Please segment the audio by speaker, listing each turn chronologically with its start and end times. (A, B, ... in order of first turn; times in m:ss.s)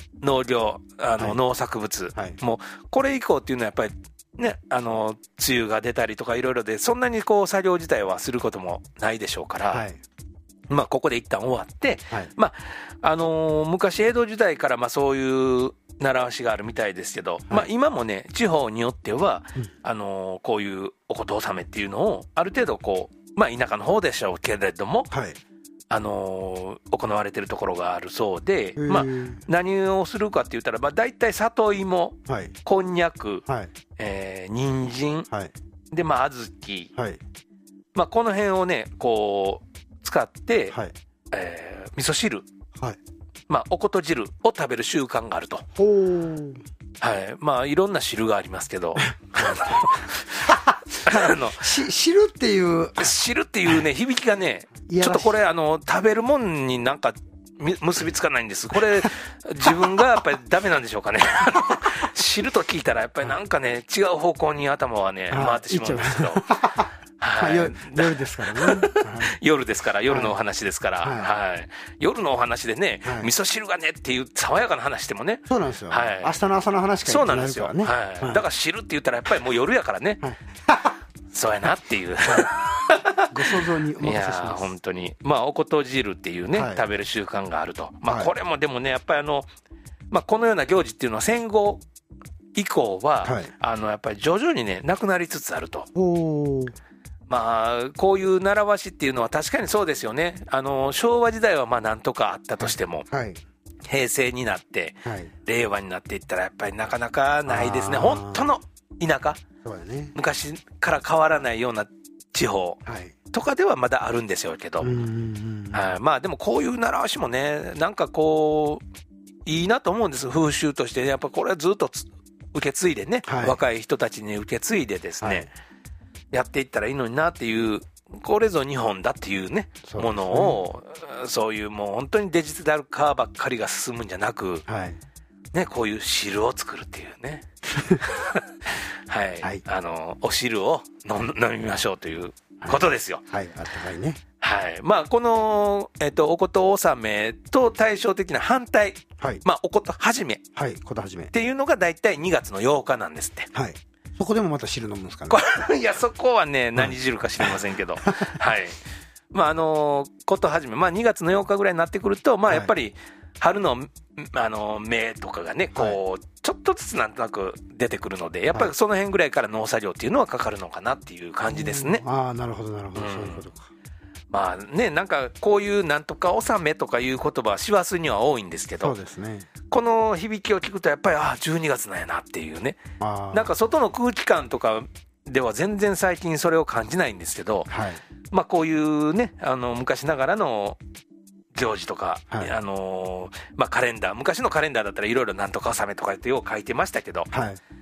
0:00.2-0:09.8 A
0:09.7-0:10.0 B
0:10.7-0:25.1 A
0:25.1-0:25.4 B
0:25.9-0:33.5 A
0:28.8-0:29.4 B
0:32.3-0:32.6 B
0:34.0-0:35.3 A
0:35.9-0:36.9 A
0:37.9-0:40.8 A
0:41.3-0:42.5 A
0:43.5-0:45.7 A
0:45.8-0:46.6 B
0:47.0-0:51.7 A
0:49.4-0:49.9 B
0:50.4-0:53.2 B
0:53.0-1:06.6 A
0:54.9-0:55.4 B
0:59.6-1:00.0 B
1:05.3-1:09.4 B
1:07.2-1:16.4 A
1:10.1-1:10.4 B
1:11.0-1:11.3 B
1:13.0-1:13.3 B
1:15.5-1:18.4 B
1:17.0-1:20.2 A
1:20.2-1:20.9 B
1:21.3-1:29.5 A
1:22.2-1:22.5 B
1:23.3-1:24.7 B
1:26.5-1:26.8 B
1:28.1-1:28.3 B
1:30.1-1:31.8 A
1:32.6-1:35.9 A
1:33.2-1:33.5 B
1:36.0-1:36.8 B
1:37.3-1:43.1 A
1:42.6-1:43.4 B
1:43.9-1:49.4 A
1:45.0-1:45.3 B
1:47.5-1:48.5 B
1:49.6-1:50.1 B
1:50.2-1:55.0 A
1:52.9-1:53.2 B
1:54.8-1:55.9 B
1:55.7-1:58.8 A
1:59.5-2:05.5 A
2:03.3-2:03.6 B
2:05.2-2:05.5 B
2:06.3-2:14.6 A
2:09.9-2:10.6 B
2:14.7-2:15.0 B
2:15.5-2:17.5 A
2:18.0-2:18.5 A
2:19.1-2:23.2 A
2:22.6-2:24.2 B
2:24.4-2:30.4 A
2:30.6-2:31.3 B
2:31.3-2:33.5 A
2:33.5-2:35.4 B
2:35.3-2:38.8 A
2:36.8-2:37.6 B
2:39.3-2:52.0 A
2:51.5-2:53.7 B
2:53.0-2:53.5 A
2:54.3-2:59.0 A
2:58.8-2:59.5 B
2:59.7-3:02.8 A
3:03.0-3:03.5 B
3:03.3-3:07.7 A
3:07.7-3:08.0 B
3:08.3-3:10.8 A
3:11.5-3:17.3 A
3:17.3-3:17.6 B